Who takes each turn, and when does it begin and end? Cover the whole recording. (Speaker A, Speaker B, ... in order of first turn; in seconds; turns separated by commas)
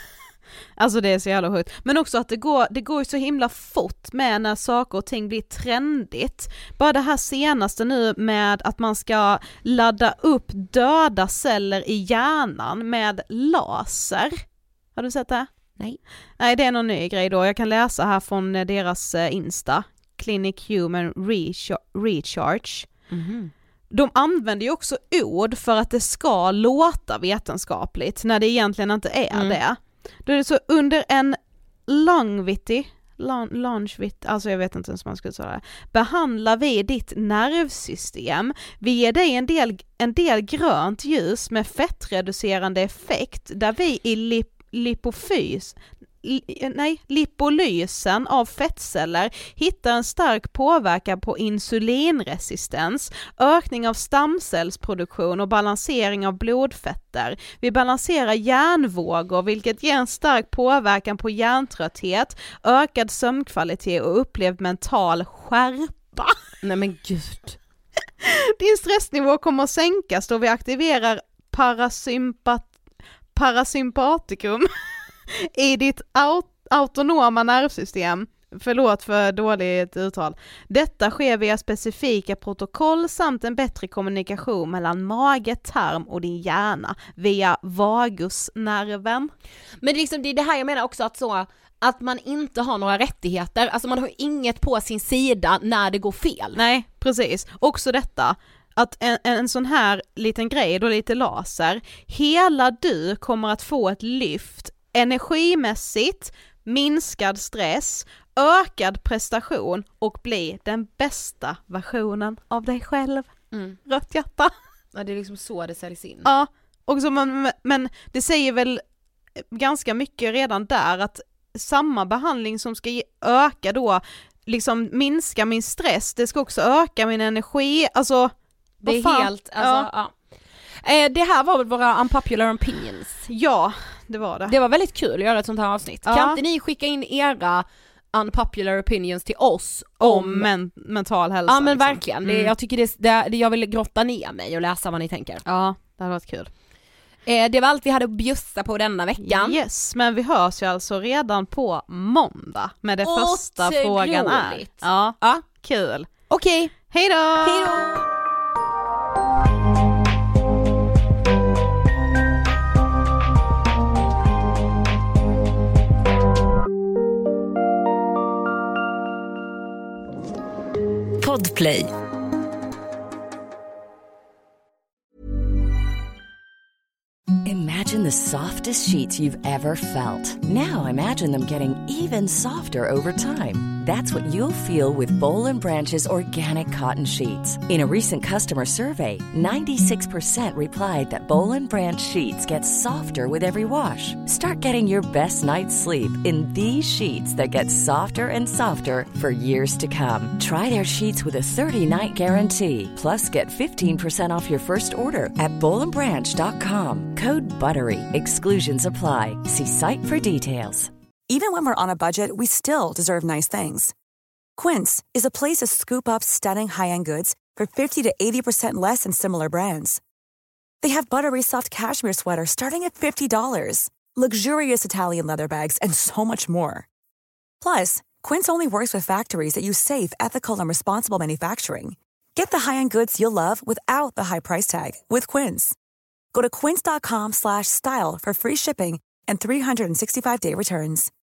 Speaker A: 0.8-14.4, Speaker A: 14.9-15.5, Speaker A: 16.4-22.9, Speaker B: 23.1-23.5, Speaker A: 23.9-66.4, Speaker B: 66.6-67.6, Speaker A: 68.2-72.7, Speaker A: 73.3-74.7, Speaker A: 75.3-89.3, Speaker B: 89.8-96.6, Speaker A: 96.5-114.5, Speaker B: 113.5-113.8, Speaker B: 114.9-116.3, Speaker A: 116.2-118.8, Speaker A: 119.5-129.9, Speaker B: 128.8-130.1, Speaker B: 130.8-133.2, Speaker A: 133.3-134.5, Speaker B: 134.5-140.5, Speaker A: 136.1-136.4, Speaker A: 140.0-142.5, Speaker B: 141.5-145.4, Speaker A: 145.4-146.5, Speaker B: 147.2-149.6, Speaker A: 149.2-156.1, Speaker B: 153.0-155.4, Speaker B: 156.3-156.7, Speaker A: 156.9-157.8, Speaker B: 157.4-158.0, Speaker B: 171.2-171.9, Speaker C: 177.4-210.9, Speaker D: 211.3-213.9, Speaker D: 214.6-220.0, Speaker D: 220.8-226.8, Speaker D: 227.6-235.8, Speaker D: 236.3-241.1